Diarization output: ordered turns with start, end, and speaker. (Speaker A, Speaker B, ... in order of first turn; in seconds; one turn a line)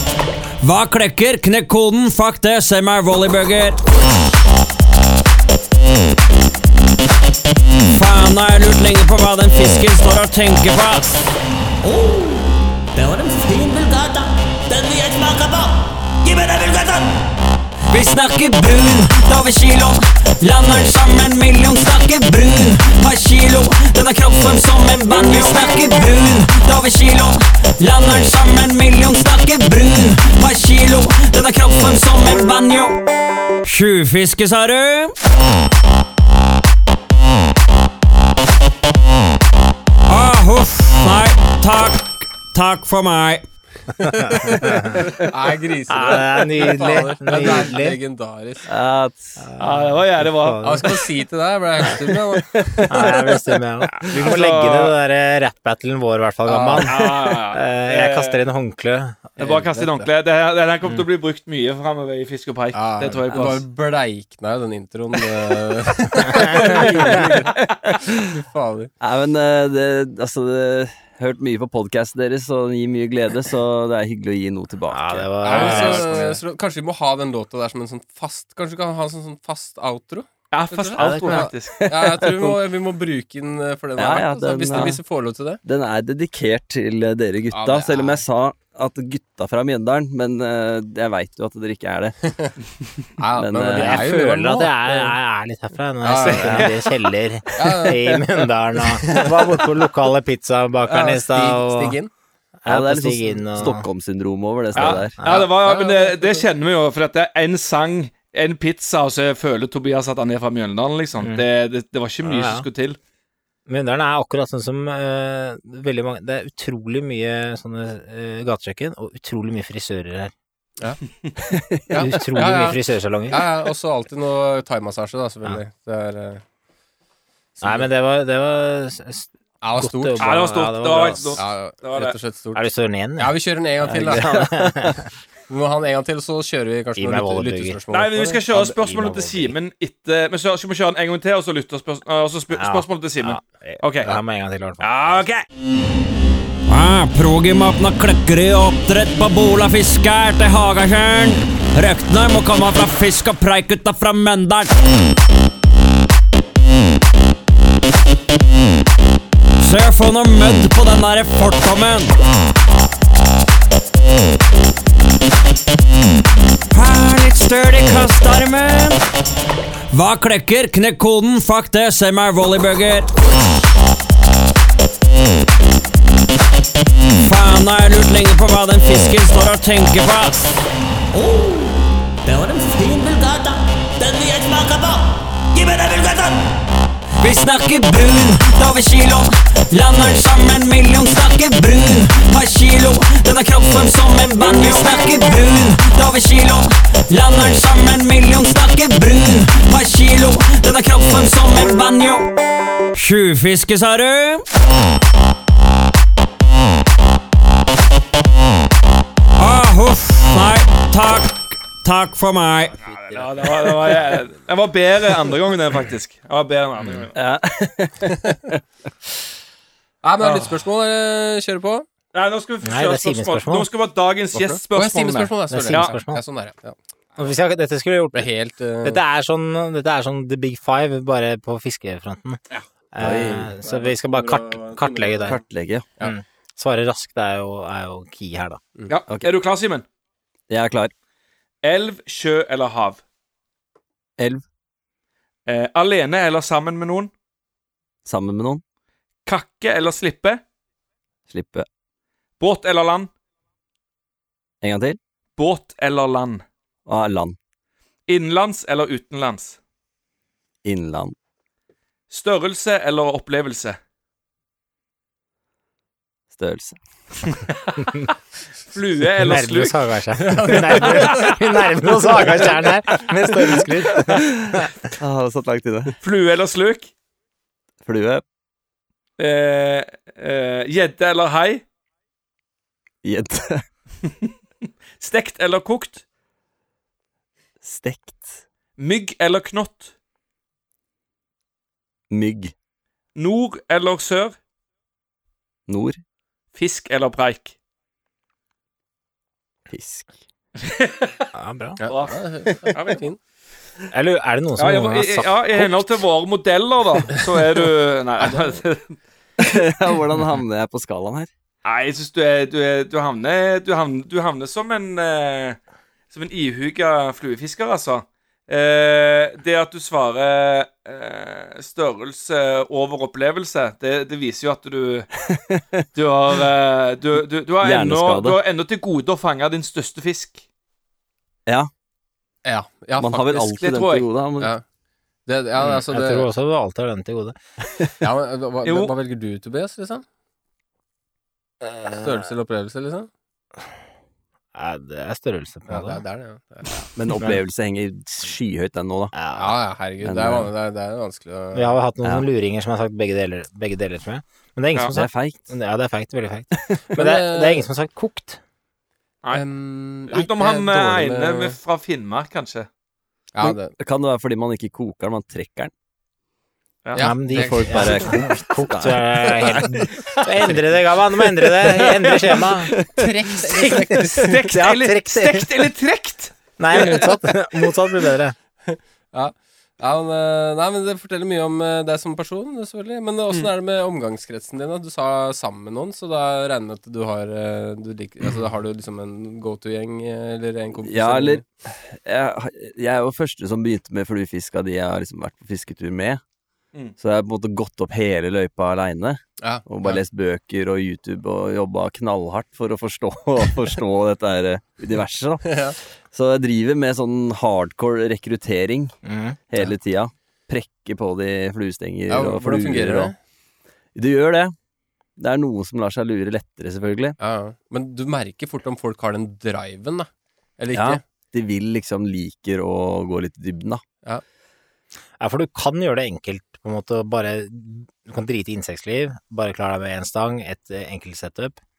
Speaker A: 0.6-3.8
Speaker A: 7.9-11.3
Speaker A: 11.8-17.1
Speaker A: 17.9-33.0
Speaker A: 33.6-35.1
Speaker A: 40.1-43.5
Speaker B: 44.0-48.7
Speaker C: 44.2-45.0
Speaker C: 45.9-48.0
Speaker D: 48.6-49.5
Speaker C: 49.4-51.0
Speaker E: 49.6-50.8
Speaker B: 50.6-53.3
Speaker D: 52.6-52.8
Speaker C: 52.9-59.4
Speaker E: 54.0-54.9
Speaker B: 56.5-56.9
Speaker E: 56.8-58.4
Speaker B: 59.4-60.1
Speaker E: 59.4-63.6
Speaker B: 62.7-67.6
Speaker B: 68.3-68.9
Speaker D: 69.0-76.1
Speaker C: 74.9-76.4
Speaker B: 75.4-85.6
Speaker E: 80.5-81.8
Speaker C: 81.0-81.5
Speaker D: 81.8-82.6
Speaker D: 84.0-85.0
Speaker D: 85.6-92.2
Speaker B: 87.5-88.2
Speaker B: 92.3-92.5
Speaker B: 93.2-95.1
Speaker D: 93.3-94.0
Speaker C: 93.7-102.0
Speaker B: 96.0-96.8
Speaker B: 97.5-98.1
Speaker B: 99.0-99.3
Speaker B: 100.8-102.1
Speaker C: 102.6-103.9
Speaker D: 102.7-105.2
Speaker C: 104.7-105.5
Speaker E: 104.8-113.0
Speaker B: 105.3-106.5
Speaker C: 111.2-111.5
Speaker C: 112.2-112.7
Speaker C: 113.7-120.3
Speaker D: 121.4-121.8
Speaker B: 121.9-126.4
Speaker C: 121.9-123.4
Speaker B: 127.6-127.9
Speaker C: 127.6-131.4
Speaker B: 129.6-130.3
Speaker E: 130.2-132.2
Speaker B: 131.3-134.3
Speaker C: 132.5-135.1
Speaker D: 133.9-135.0
Speaker B: 135.5-138.4
Speaker C: 136.9-137.8
Speaker E: 137.9-144.1
Speaker C: 138.5-139.6
Speaker C: 142.5-145.2
Speaker E: 144.8-145.4
Speaker A: 146.7-154.7
Speaker A: 159.6-162.1
Speaker A: 166.7-169.0
Speaker A: 169.9-173.1
Speaker A: 177.2-180.6
Speaker A: 181.1-186.4
Speaker A: 187.2-202.3
Speaker A: 202.9-204.4
Speaker A: 209.4-212.7
Speaker E: 212.8-217.2
Speaker C: 216.8-217.1
Speaker D: 217.1-218.6
Speaker B: 220.0-221.8
Speaker E: 220.2-220.5
Speaker E: 222.1-225.9
Speaker C: 222.6-223.7
Speaker B: 224.3-226.8
Speaker C: 225.5-226.2
Speaker C: 227.2-228.3
Speaker B: 228.1-229.0
Speaker C: 228.8-232.4
Speaker C: 232.9-235.4
Speaker D: 233.0-233.5
Speaker B: 233.6-235.1
Speaker D: 235.2-235.8
Speaker C: 236.0-238.6
Speaker E: 238.9-239.8
Speaker D: 240.5-240.9
Speaker E: 241.6-243.0
Speaker D: 244.2-244.4
Speaker E: 245.5-247.1
Speaker D: 248.1-248.6
Speaker E: 249.2-250.4
Speaker D: 251.3-251.7
Speaker E: 252.4-253.1
Speaker D: 254.6-255.0
Speaker E: 255.4-256.4
Speaker D: 256.9-257.4
Speaker E: 258.1-259.6
Speaker D: 260.6-261.1
Speaker E: 262.1-263.8
Speaker D: 266.3-266.8
Speaker E: 268.7-269.8
Speaker C: 269.2-274.7
Speaker B: 270.2-271.4
Speaker E: 270.7-271.3
Speaker B: 272.2-272.4
Speaker D: 274.1-276.0
Speaker E: 276.0-276.9
Speaker D: 277.8-278.2
Speaker E: 279.2-281.6
Speaker D: 283.0-283.6
Speaker E: 285.0-286.0
Speaker D: 287.6-288.4
Speaker E: 288.8-289.9
Speaker D: 292.1-292.5
Speaker E: 293.1-294.4
Speaker D: 295.7-296.0
Speaker E: 296.5-297.5
Speaker D: 299.7-300.2
Speaker E: 300.6-301.3
Speaker C: 301.3-301.8
Speaker B: 301.8-303.2
Speaker E: 301.9-302.1
Speaker E: 302.7-303.0
Speaker C: 303.9-306.0
Speaker E: 304.6-308.9
Speaker D: 309.4-311.3
Speaker E: 311.6-315.6
Speaker E: 316.1-325.1
Speaker D: 325.3-325.8
Speaker E: 325.9-330.4
Speaker D: 327.6-328.4
Speaker B: 332.4-333.7
Speaker D: 333.0-334.5
Speaker E: 333.5-334.1
Speaker B: 335.2-336.3
Speaker C: 335.6-337.4
Speaker B: 338.0-340.0
Speaker E: 338.6-338.9
Speaker C: 341.6-342.2
Speaker B: 341.9-343.1
Speaker C: 344.5-346.0
Speaker B: 345.7-346.7
Speaker D: 346.9-349.1
Speaker C: 349.1-349.6
Speaker B: 349.4-351.8
Speaker D: 350.0-350.5
Speaker C: 351.5-358.4
Speaker D: 354.9-355.5
Speaker B: 356.9-357.7
Speaker B: 359.3-361.6
Speaker E: 360.1-362.7
Speaker B: 363.3-363.7
Speaker D: 363.4-365.7
Speaker B: 366.9-368.2
Speaker C: 366.9-372.8
Speaker D: 367.3-369.8
Speaker E: 371.8-372.6
Speaker D: 372.7-373.0
Speaker B: 372.9-374.3
Speaker C: 373.4-375.7
Speaker E: 374.2-377.0
Speaker C: 376.6-378.4
Speaker B: 378.7-391.4
Speaker D: 390.8-396.2
Speaker D: 397.0-408.9
Speaker B: 399.4-400.0
Speaker B: 405.4-405.8
Speaker C: 409.0-409.4
Speaker D: 409.5-413.1
Speaker B: 412.1-413.1
Speaker D: 413.9-414.5
Speaker D: 415.2-417.2
Speaker B: 417.2-421.0
Speaker D: 420.7-423.8
Speaker C: 425.2-431.6